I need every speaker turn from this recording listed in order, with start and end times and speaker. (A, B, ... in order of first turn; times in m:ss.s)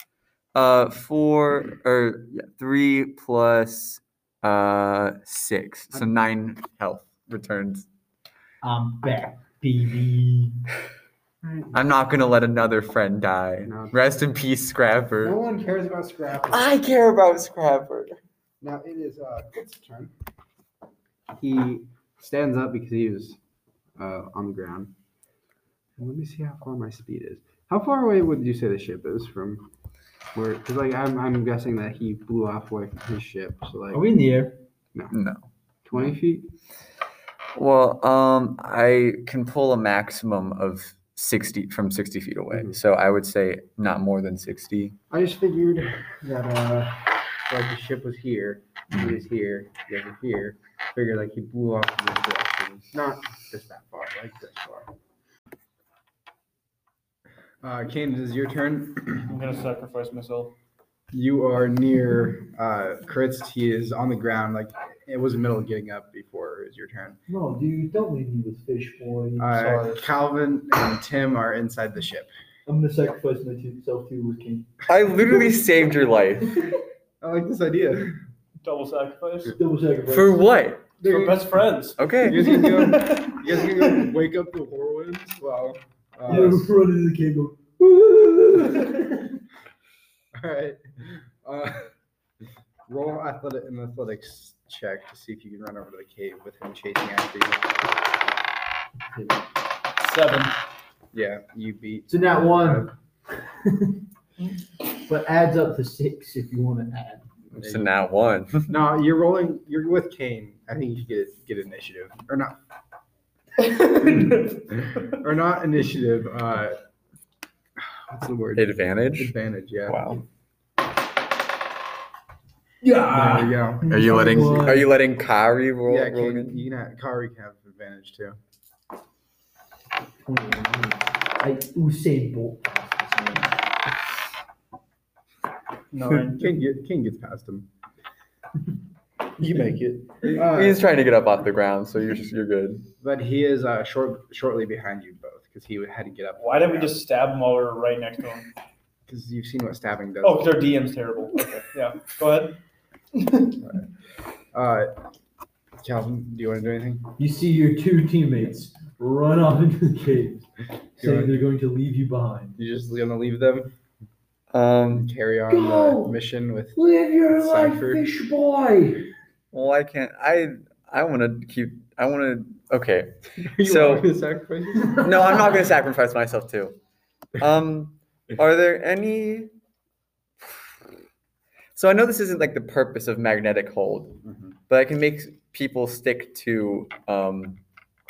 0:00.5-0:07.9 A
0:08.6-0:10.6 B
0:11.4-0:11.8 C
0:11.7-0:15.4 A
0:13.6-0:14.0 C
0:15.2-0:16.7 C
0:16.5-0:18.2 A
0:18.6-0:20.1 C
0:21.3-0:23.4 C
0:24.0-0:24.9 C
0:26.0-0:29.6 C
0:30.3-0:34.0 C
0:33.9-0:34.6 B
0:35.1-0:35.5 A
0:35.8-0:36.5 C
0:37.5-0:45.0 A
0:42.5-0:42.8 C
0:45.1-0:54.9 C
0:57.6-0:59.3 C
0:59.2-1:00.5 D
1:01.1-1:07.2 C
1:07.3-1:09.5 B
1:09.4-1:12.3 C
1:09.5-1:10.1 D
1:12.6-1:14.7 B
1:14.9-1:16.8 A
1:17.2-1:18.2 C
1:18.6-1:19.6 D
1:19.5-1:20.4 B
1:20.1-1:20.9 A
1:21.0-1:21.6 C
1:21.0-1:24.1 D
1:22.0-1:22.6 A
1:22.2-1:26.7 C
1:26.2-1:29.4 B
1:30.3-1:31.9 C
1:32.9-1:37.9 C
1:39.1-1:39.4 B
1:40.0-1:40.6 D
1:41.1-1:42.9 C
1:42.1-1:44.0 B
1:45.0-1:47.3 B
1:47.5-1:47.9 C
1:47.6-1:48.8 A
1:48.7-1:52.6 C
1:53.6-1:55.1 D
1:55.1-1:56.8 C
1:57.8-2:00.2 C
1:58.6-1:59.3 A
1:59.9-2:00.2 A
2:02.8-2:04.9 B
2:03.1-2:04.2 C
2:03.9-2:06.6 A
2:05.9-2:08.4 C
2:10.2-2:13.5 B
2:15.9-2:16.4 D
2:16.2-2:17.7 C
2:19.4-2:20.4 D
2:20.2-2:20.8 C
2:20.3-2:22.9 A
2:23.0-2:27.0 C
2:26.4-2:28.5 D
2:29.1-2:30.6 C
2:30.2-2:32.6 D
2:33.1-2:33.6 D
2:34.5-2:34.9 C
2:35.8-2:37.1 C
2:37.2-2:42.5 B
2:41.0-2:41.4 C
2:42.6-2:43.7 C
2:44.5-2:45.1 A
2:44.9-2:48.1 C
2:45.5-2:46.2 B
2:46.7-2:49.0 B
2:49.5-2:54.1 A
2:53.4-2:55.4 C
2:55.0-2:56.8 A
2:57.4-2:59.5 A
3:00.4-3:00.7 A
3:01.7-3:07.6 A
3:04.2-3:04.5 C